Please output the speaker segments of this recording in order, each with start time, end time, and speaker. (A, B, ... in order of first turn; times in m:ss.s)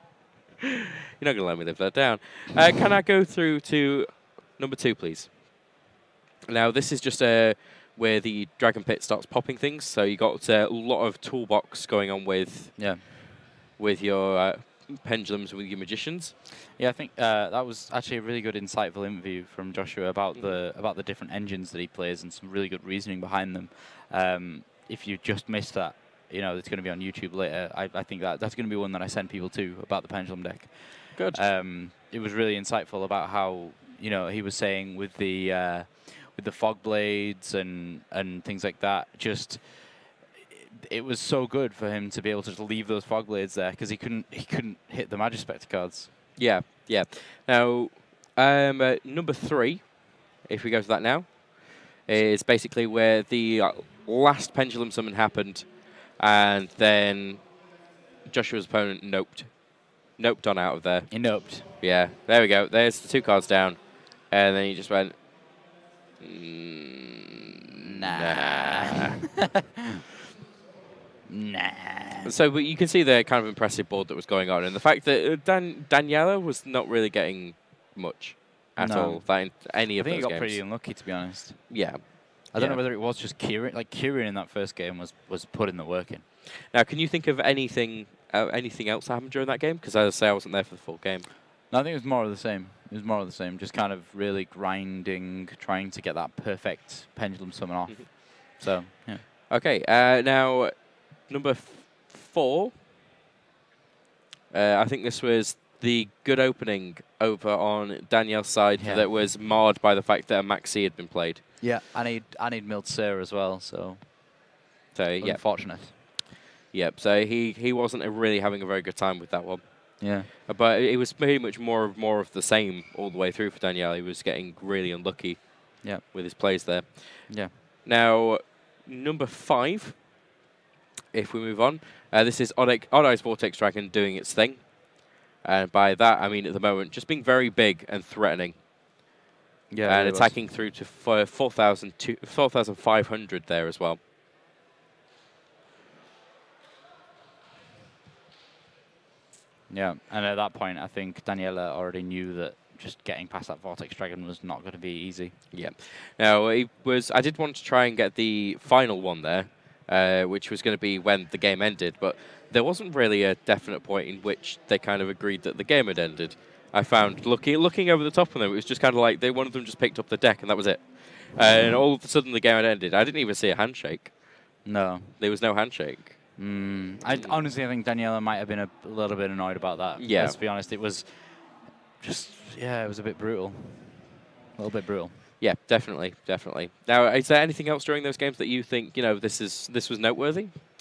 0:01.2-0:05.7 A
0:06.5-0:16.3 A
0:12.8-0:13.0 B
0:16.8-0:46.1 B
0:31.2-0:31.4 A
0:46.4-0:57.7 A
0:58.2-1:05.7 A
1:01.1-1:01.7 B
1:06.2-1:07.1 A
1:07.8-1:09.1 B
1:08.0-1:08.9 A
1:11.3-1:12.3 B
1:12.2-1:21.0 A
1:18.8-1:26.2 B
1:21.7-1:22.8 A
1:26.7-1:31.3 A
1:31.7-1:39.2 B
1:39.5-1:42.7 A
1:44.5-1:51.4 A
1:48.8-1:49.1 B
1:51.6-1:54.1 B
1:54.9-2:10.1 A
1:55.2-1:55.9 B
2:00.0-2:00.3 B
2:11.1-2:18.6 A
2:19.7-2:20.4 B
2:19.8-2:24.0 A
2:29.7-2:35.4 B
2:35.5-2:54.6 A
2:54.6-2:55.2 B
2:55.2-2:56.4 A
2:56.4-3:05.2 B
2:57.1-2:57.4 A
3:00.0-3:00.4 A
3:05.4-3:10.6 A